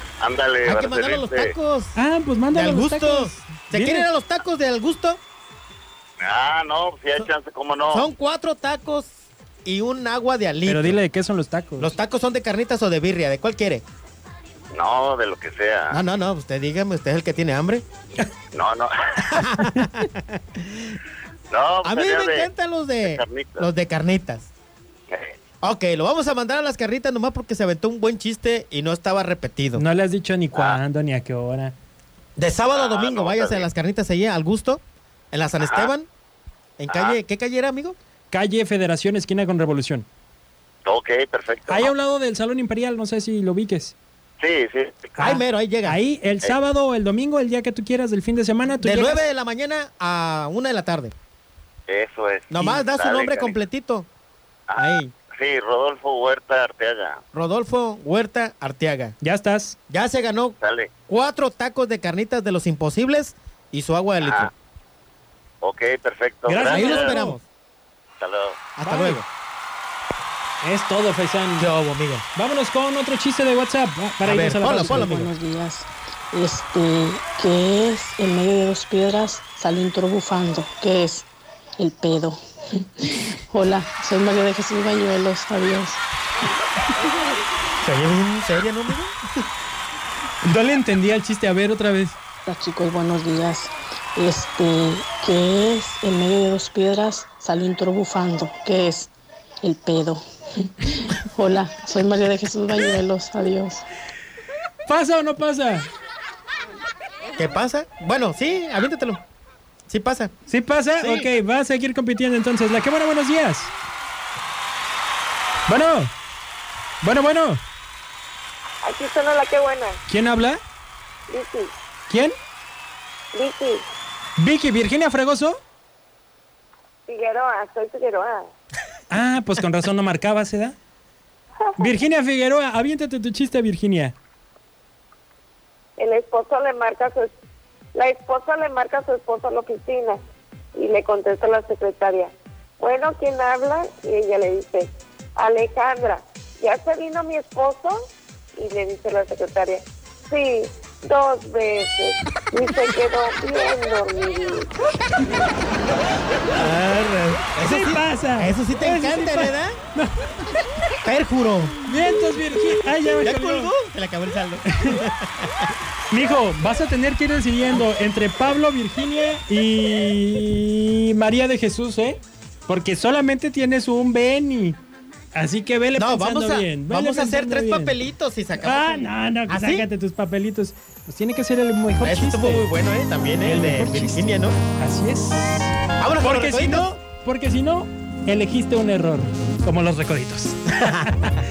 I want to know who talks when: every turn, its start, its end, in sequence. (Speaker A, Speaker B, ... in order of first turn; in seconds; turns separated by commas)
Speaker A: 0.2-1.5, Speaker B: 0.6-2.0, Speaker C: 1.9-4.1, Speaker B: 2.5-5.2, Speaker A: 6.2-8.1, Speaker B: 7.9-9.1, Speaker B: 9.7-11.0, Speaker C: 10.7-11.9, Speaker B: 11.8-13.8, Speaker A: 14.7-16.0, Speaker B: 15.9-17.8, Speaker A: 18.5-19.4, Speaker B: 19.3-21.0, Speaker C: 19.7-20.0, Speaker A: 21.5-22.5, Speaker B: 21.8-24.5, Speaker A: 23.1-23.7, Speaker A: 25.1-25.4, Speaker B: 25.6-29.8, Speaker C: 29.8-31.8, Speaker B: 32.4-36.1, Speaker A: 32.7-33.7, Speaker A: 35.6-35.9, Speaker B: 36.8-38.0, Speaker A: 36.9-37.2, Speaker C: 38.3-40.1, Speaker A: 40.9-41.9, Speaker C: 41.7-44.0, Speaker A: 44.4-45.1, Speaker B: 45.2-46.0, Speaker C: 45.2-49.3, Speaker B: 48.8-51.1, Speaker A: 51.9-53.6, Speaker B: 52.5-54.1, Speaker A: 54.7-57.2, Speaker B: 54.8-55.1, Speaker B: 57.3-59.2, Speaker C: 59.2-59.8, Speaker B: 59.9-60.6, Speaker A: 60.6-60.9, Speaker B: 61.1-64.5, Speaker A: 64.2-64.5, Speaker A: 65.6-67.1, Speaker C: 66.5-67.4, Speaker B: 66.7-67.4, Speaker A: 68.2-68.6, Speaker B: 68.8-69.3, Speaker C: 68.8-69.2, Speaker C: 70.6-71.7, Speaker B: 71.6-72.2, Speaker C: 72.3-75.3, Speaker B: 74.2-75.3, Speaker D: 74.7-81.3, Speaker D: 81.8-82.3, Speaker D: 83.5-86.0, Speaker B: 87.8-89.1, Speaker C: 90.4-92.2, Speaker D: 92.5-99.1, Speaker D: 99.6-100.2, Speaker D: 101.3-103.9, Speaker C: 104.9-105.9, Speaker B: 107.4-109.2, Speaker B: 109.9-110.3, Speaker C: 110.5-113.7, Speaker B: 111.0-111.3, Speaker C: 115.7-116.1, Speaker C: 117.0-117.6, Speaker E: 118.8-120.0, Speaker C: 120.1-120.6, Speaker E: 121.3-121.7, Speaker C: 122.1-122.3, Speaker E: 123.3-123.8, Speaker C: 124.4-125.6, Speaker E: 127.1-128.5, Speaker C: 129.1-130.8, Speaker C: 131.8-134.2, Speaker E: 136.0-137.3, Speaker E: 137.9-140.2, Speaker E: 140.8-148.0, Speaker E: 148.6-154.7, Speaker B: 156.5-159.8, Speaker C: 157.6-160.3, Speaker B: 161.0-161.8, Speaker C: 161.9-163.7, Speaker B: 163.2-165.7, Speaker C: 164.7-165.0, Speaker C: 166.1-174.8, Speaker C: 175.3-178.1, Speaker B: 175.9-179.9, Speaker C: 178.6-182.7, Speaker B: 182.0-184.6, Speaker C: 183.4-191.3, Speaker B: 186.0-186.9, Speaker B: 190.8-191.4